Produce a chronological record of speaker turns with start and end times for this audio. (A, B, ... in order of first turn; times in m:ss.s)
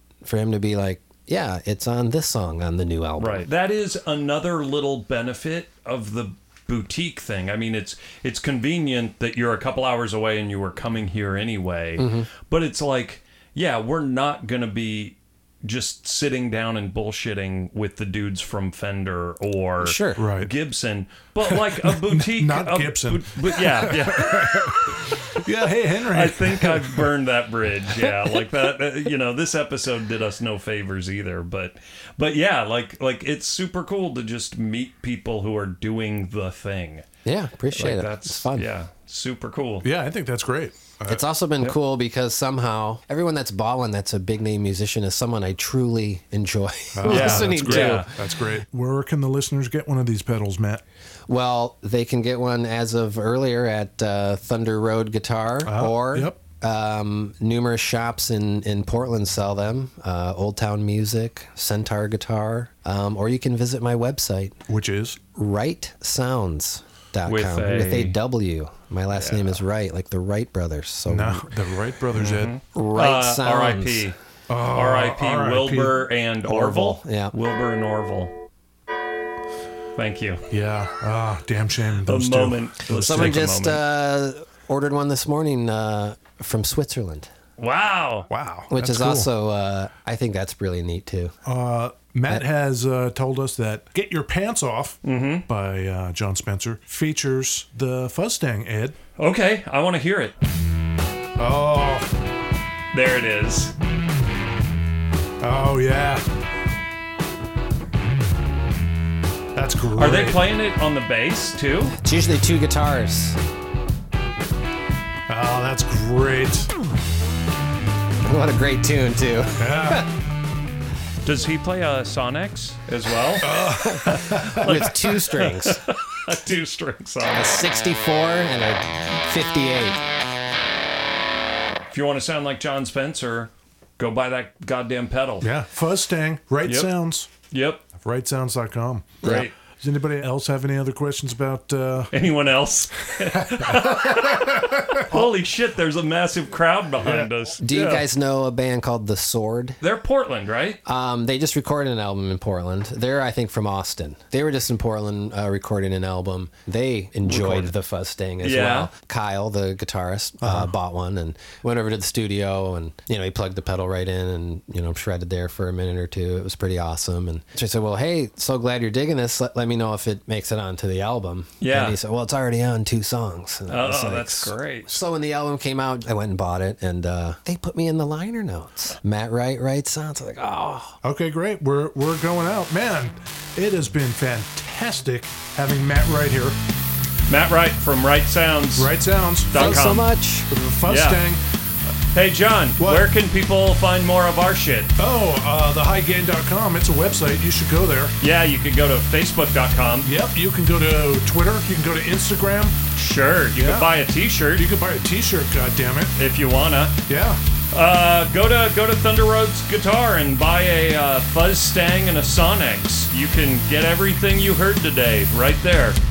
0:00.2-0:03.5 A
0:03.2-0:24.8 B
0:12.0-0:12.3 A
0:19.8-0:20.2 A
0:20.2-0:20.5 C
0:21.4-0:27.1 C
0:26.1-0:37.0 B
0:37.2-0:38.7 A
0:37.7-0:39.9 B
0:39.8-0:41.2 C
0:41.1-0:48.1 A
0:46.9-0:50.8 C
0:47.1-0:48.1 B
0:51.3-1:04.6 A
0:55.6-0:56.4 C
1:04.7-1:05.2 C
1:05.3-1:11.5 A
1:07.3-1:08.1 B
1:09.2-1:09.6 B
1:11.1-1:12.5 C
1:12.1-1:14.2 B
1:12.7-1:14.1 A
1:14.5-1:16.1 C
1:14.7-1:18.3 B
1:16.4-1:17.3 A
1:20.0-1:20.4 B
1:20.5-1:23.4 C
1:22.0-1:23.8 B
1:22.9-1:27.3 A
1:27.6-1:28.3 B
1:28.3-1:29.3 C
1:28.7-1:31.3 A
1:31.4-1:39.0 C
1:35.0-1:35.4 B
1:39.2-1:40.3 B
1:41.4-1:42.1 C
1:42.9-1:43.7 B
1:45.4-1:46.2 C
1:49.5-1:50.5 C
1:50.0-1:52.0 B
1:52.0-1:53.4 A
1:55.3-1:56.7 C
1:58.2-2:00.1 A
1:59.6-2:00.1 C
2:01.2-2:07.6 B
2:03.4-2:04.9 C
2:03.8-2:05.8 A
2:07.3-2:10.0 A
2:11.9-2:15.5 B
2:15.4-2:17.3 C
2:16.6-2:16.9 B
2:17.5-2:17.8 B
2:18.0-2:22.1 C
2:19.2-2:19.5 A
2:19.2-2:19.5 B
2:22.1-2:28.0 B
2:23.3-2:25.0 C
2:27.0-2:27.3 C
2:27.6-2:29.8 A
2:29.8-2:30.8 B
2:30.8-3:01.0 A
2:37.3-2:37.7 B
2:38.4-2:38.9 B
2:40.4-2:40.7 C
2:51.6-2:52.0 B
2:53.7-2:55.0 B
3:01.0-3:06.6 C
3:07.3-3:08.9 B
3:08.8-3:09.8 C
3:09.5-3:10.1 B
3:09.5-3:10.5 A
3:10.5-3:11.4 C
3:10.8-3:11.2 B
3:12.1-3:14.9 B
3:12.8-3:13.1 C
3:15.0-3:18.2 C
3:18.2-3:20.1 B
3:20.0-3:22.8 C
3:22.9-3:24.6 B
3:23.6-3:23.9 C
3:24.5-3:26.2 C
3:26.2-3:26.9 B
3:27.1-3:27.4 C
3:27.7-3:36.0 B